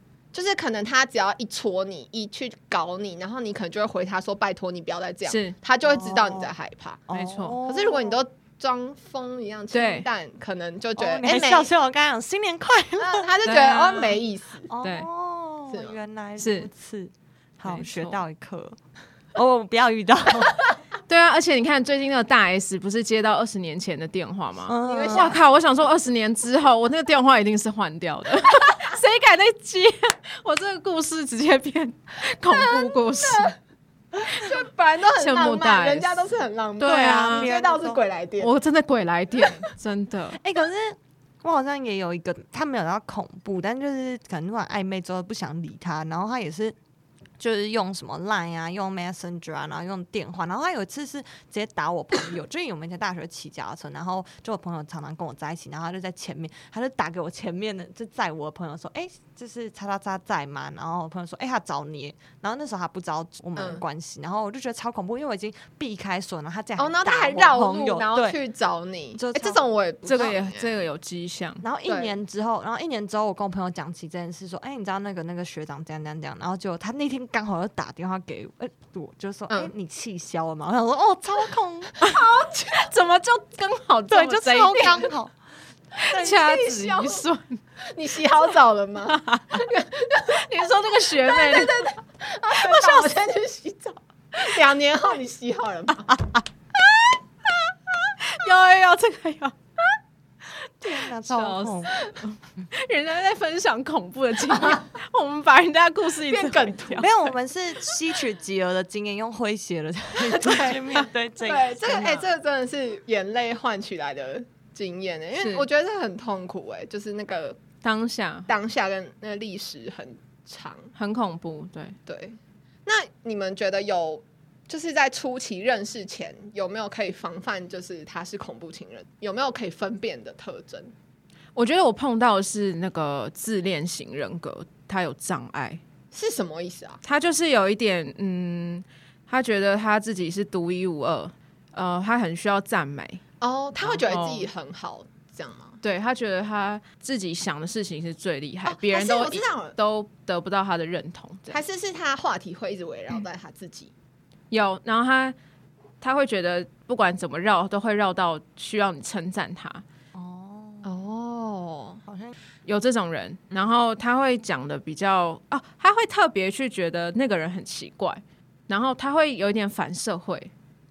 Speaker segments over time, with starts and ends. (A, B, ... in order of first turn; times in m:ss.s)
0:00.3-0:07.1 A
0:05.2-0:05.5 B
0:05.8-0:06.5 C
0:07.1-0:08.2 C
0:07.1-0:07.6 B
0:07.6-0:11.7 A
0:09.7-0:10.1 B
0:11.0-0:13.2 C
0:13.0-0:14.7 A
0:13.4-0:14.2 B
0:14.7-0:18.8 C
0:14.8-0:15.1 B
0:15.7-0:16.0 A
0:16.4-0:16.7 B
0:17.6-0:18.2 B
0:19.3-0:20.6 C
0:21.1-0:33.5 B
0:24.7-0:25.4 C
0:24.9-0:25.4 A
0:32.4-0:33.5 A
0:34.2-0:38.5 A
0:35.2-0:36.2 B
0:36.8-0:37.5 B
0:36.8-0:38.0 C
0:38.4-0:40.4 B
0:40.4-0:46.8 C
0:47.4-1:08.4 C
1:03.6-1:03.8 A
1:06.8-1:10.8 A
1:09.2-1:09.6 C
1:10.0-1:11.6 B
1:11.6-1:21.9 C
1:11.8-1:12.2 A
1:22.0-1:22.9 A
1:22.0-1:25.0 B
1:24.1-1:25.4 C
1:26.0-1:27.6 B
1:26.1-1:26.5 C
1:26.2-1:27.2 A
1:27.9-1:30.5 A
1:29.1-1:29.6 B
1:30.2-1:31.8 B
1:31.1-1:36.2 A
1:32.5-1:33.2 B
1:38.2-1:39.5 B
1:40.8-1:42.0 C
1:41.2-1:47.1 B
1:46.3-1:47.1 A
1:47.0-1:52.2 C
1:50.2-1:57.6 A
1:51.9-1:52.2 B
1:55.4-1:55.6 B
1:57.8-1:58.5 B
1:58.5-2:00.9 A
2:00.9-2:02.0 B
2:02.1-2:10.9 A
2:11.6-2:15.8 B
2:16.1-2:17.0 A
2:17.0-2:23.2 B
2:23.4-2:25.8 A
2:23.8-2:24.5 B
2:25.8-2:31.6 B
2:28.6-2:29.8 A
2:31.5-2:33.9 A
2:34.5-2:35.4 B
2:36.0-2:39.8 B
2:40.1-2:41.0 C
2:40.8-2:42.0 A
2:42.0-2:42.3 C
2:42.6-2:50.5 B